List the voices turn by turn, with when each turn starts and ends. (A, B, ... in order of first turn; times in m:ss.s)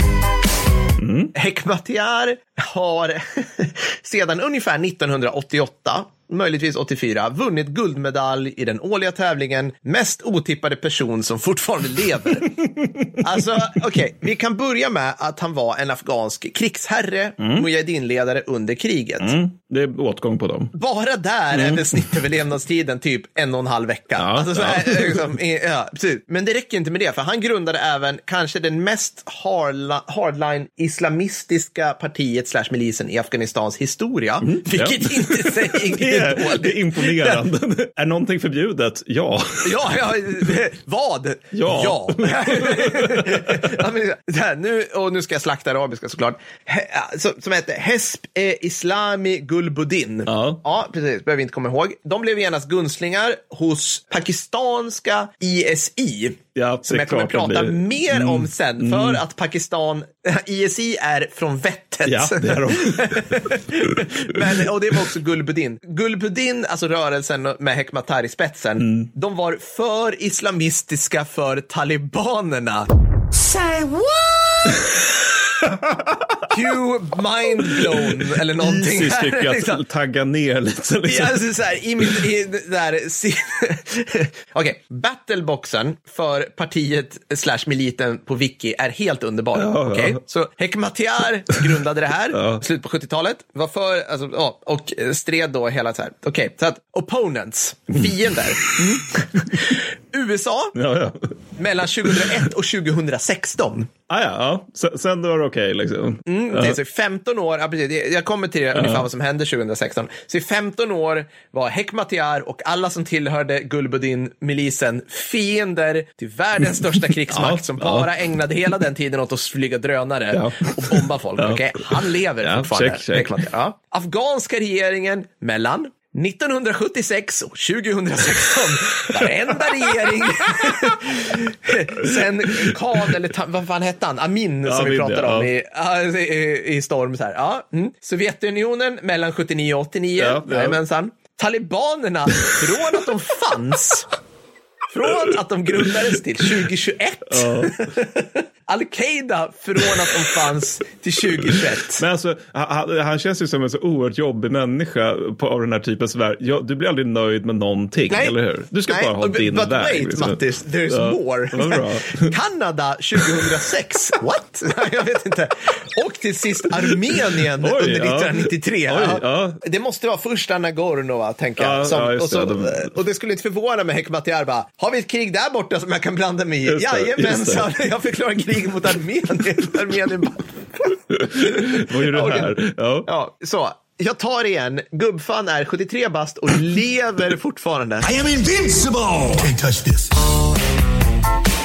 0:01.0-0:01.3 A
0:01.3-0:12.6 B
0:12.5-0:13.2 A
0:13.2-0:19.3 B
0:17.4-0:17.6 A
0:19.2-0:20.7 A
0:20.8-0:37.4 B
0:21.5-0:22.2 A
0:24.2-0:25.3 A
0:34.4-0:39.9 A
0:39.6-1:14.9 B
0:41.5-0:43.7 A
0:50.3-0:50.6 A
0:56.6-0:59.2 A
1:02.1-1:03.9 A
1:08.8-1:09.1 A
1:15.6-1:16.4 A
1:16.5-1:19.8 B
1:17.6-1:21.5 A
1:21.1-1:40.8 B
1:29.6-1:30.2 A
1:32.3-1:32.6 A
1:40.8-1:41.3 A
1:41.6-1:43.9 B
1:44.1-1:46.8 A
1:46.3-2:24.1 B
1:48.7-1:49.0 A
1:57.3-1:58.1 A
2:00.3-2:03.4 A
2:09.6-2:11.0 A
2:12.0-2:13.1 A
2:14.6-2:15.5 A
2:20.2-2:20.8 A
2:24.9-2:32.0 B
2:27.3-2:27.8 A
2:31.4-2:40.4 A
2:38.1-2:38.4 B
2:38.9-3:08.0 B
2:40.9-2:42.3 A
2:47.6-2:49.6 A
2:51.6-2:52.9 A
2:56.7-2:57.7 A
3:01.1-3:03.1 A
3:08.0-3:10.1 C